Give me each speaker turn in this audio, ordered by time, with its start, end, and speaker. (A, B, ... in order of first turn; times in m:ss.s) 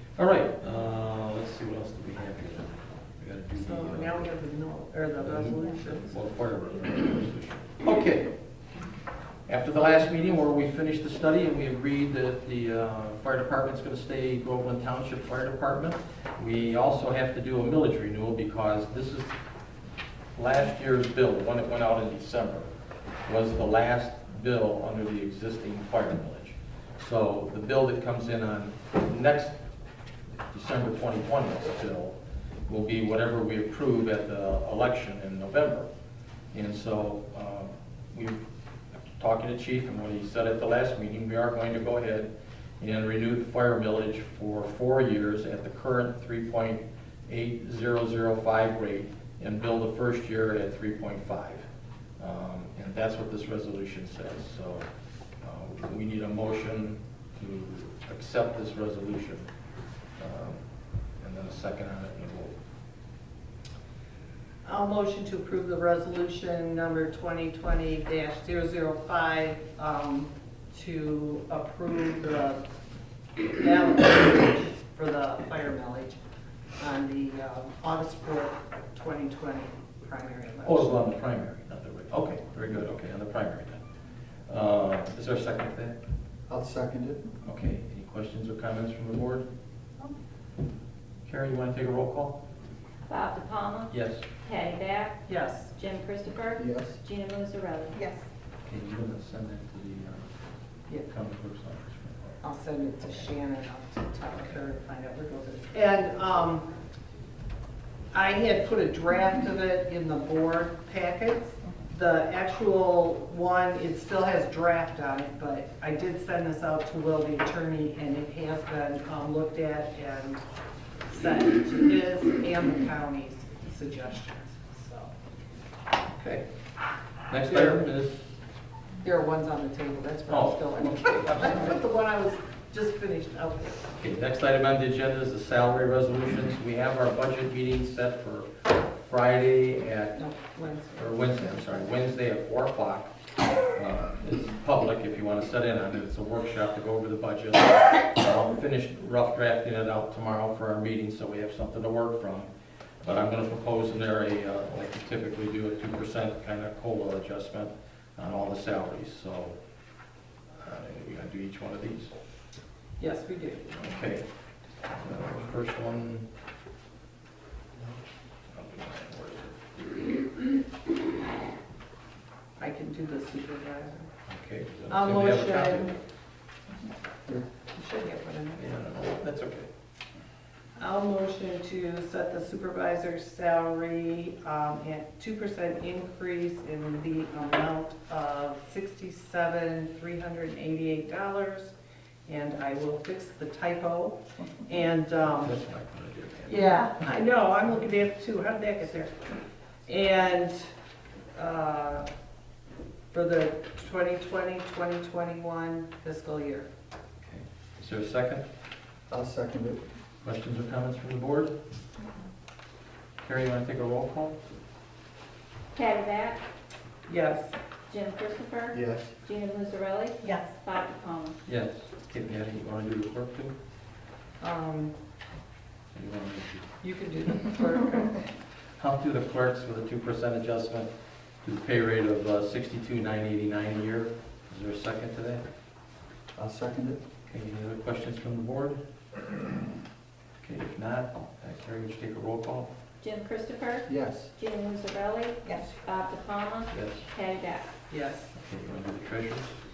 0:00.2-0:04.2 A
0:03.5-0:06.2 B
0:05.2-0:08.3 A
0:09.4-0:19.3 A
0:20.3-0:22.7 A
0:23.2-0:29.6 A
0:30.5-0:35.9 A
0:36.5-0:38.5 A
0:39.2-0:51.6 A
0:52.2-0:54.9 A
0:55.4-0:59.5 A
1:00.2-1:00.6 A
1:01.2-1:02.5 A
1:04.6-1:12.6 B
1:13.6-1:16.2 B
1:16.8-1:21.0 B
1:20.6-1:23.8 A
1:24.5-1:26.0 A
1:26.5-1:27.2 C
1:27.4-1:29.4 A
1:31.2-1:32.4 A
1:33.1-1:35.2 D
1:33.9-1:34.2 A
1:35.3-1:35.7 B
1:35.7-1:38.0 D
1:36.6-1:37.0 C
1:37.9-1:38.3 B
1:38.6-1:40.3 A
1:41.0-1:42.4 A
1:42.4-1:46.7 B
1:48.1-2:00.4 B
2:01.1-2:05.1 B
2:06.1-2:06.4 A
2:07.3-2:08.3 A
2:07.4-2:07.8 B
2:09.0-2:13.9 B
2:10.3-2:11.8 A
2:14.0-2:20.2 A
2:20.2-2:21.8 B
2:21.0-2:23.1 A
2:23.7-2:32.5 A
2:33.0-2:39.6 A
2:40.6-2:42.1 A
2:43.0-2:43.6 B
2:43.7-2:44.2 A
2:44.9-2:46.3 A
2:48.5-2:50.0 A
2:52.6-2:54.1 B
2:54.3-2:56.0 A
2:54.9-2:55.9 B
2:57.7-2:58.6 B
2:58.5-2:59.7 A
3:00.8-3:11.7 B
3:12.2-3:15.5 B
3:15.2-3:16.8 A
3:16.4-3:19.3 B
3:19.8-3:20.6 B
3:21.3-3:22.1 B
3:23.1-3:26.7 B
3:27.2-3:28.4 A
3:29.1-3:29.8 C
3:30.2-3:31.5 A
3:33.2-3:34.4 A
3:35.7-3:36.4 D
3:37.0-3:37.5 B
3:37.9-3:41.4 D
3:38.7-3:39.1 C
3:40.2-3:40.5 B
3:41.4-3:43.5 A
3:44.4-3:44.9 B
3:45.9-3:46.7 A
3:46.8-3:48.2 B
3:48.8-3:50.9 A
3:51.4-3:55.4 A
3:56.3-3:57.0 C
3:57.3-3:58.8 A
4:00.4-4:02.7 A
4:03.0-4:07.7 D
4:03.9-4:04.3 C
4:06.7-4:07.0 A
4:07.9-4:08.3 B
4:08.3-4:09.5 A